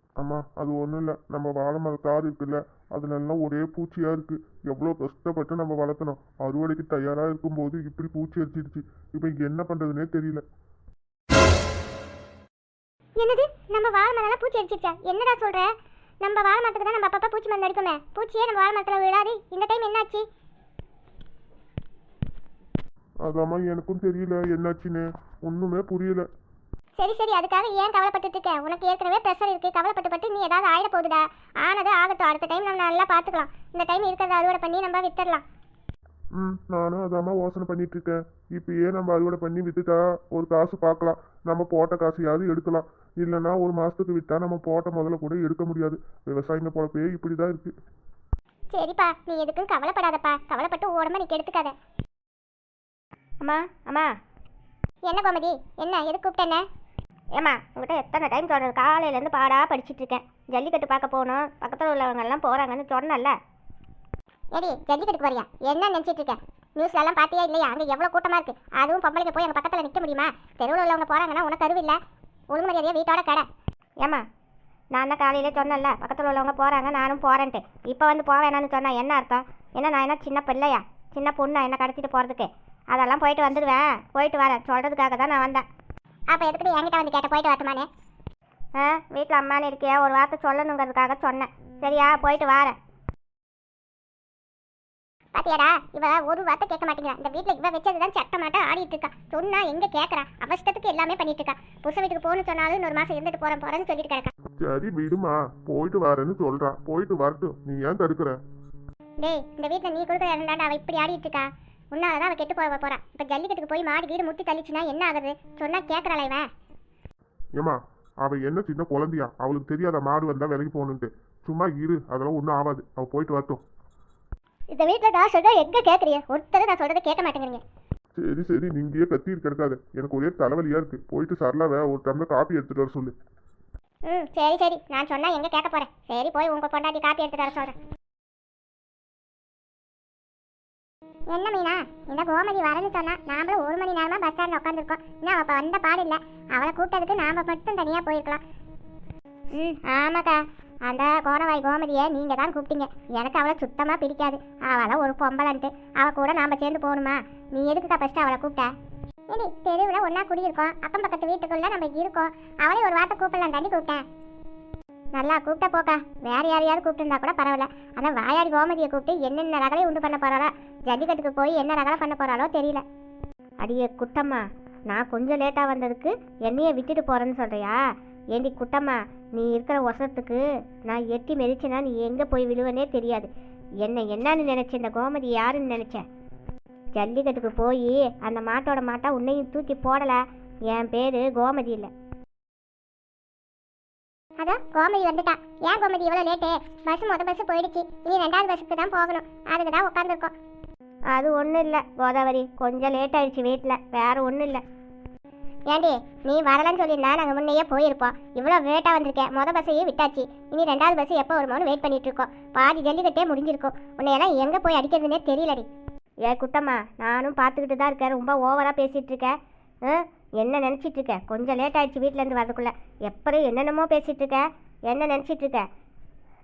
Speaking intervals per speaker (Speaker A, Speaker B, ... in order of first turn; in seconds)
Speaker A: 0.2-10.4, 23.2-26.3, 36.4-47.7, 104.6-108.4, 117.6-123.6, 128.2-133.1
Speaker B: 13.2-15.7, 16.2-20.2, 27.0-35.4, 48.7-51.8, 55.0-56.6, 57.5-60.1, 60.6-62.9, 64.5-72.0, 72.5-73.5, 75.1-76.2, 78.0-78.3, 81.4-81.8, 83.0-83.7, 84.2-84.9, 86.3-87.9, 89.2-92.6, 95.3-104.3, 109.2-116.5, 124.7-127.6, 134.1-137.8, 141.3-148.4, 149.6-150.4, 150.9-158.7, 159.3-164.0, 165.2-172.8, 194.4-200.3, 205.7-215.7
Speaker C: 53.4-54.1, 57.4-63.3, 75.0-85.6, 88.8-92.7, 150.9-152.2, 153.0-157.1, 173.6-177.8, 178.3-183.3, 183.8-186.0, 187.0-190.2, 190.7-191.9, 201.1-204.6, 216.3-219.3, 219.9-225.6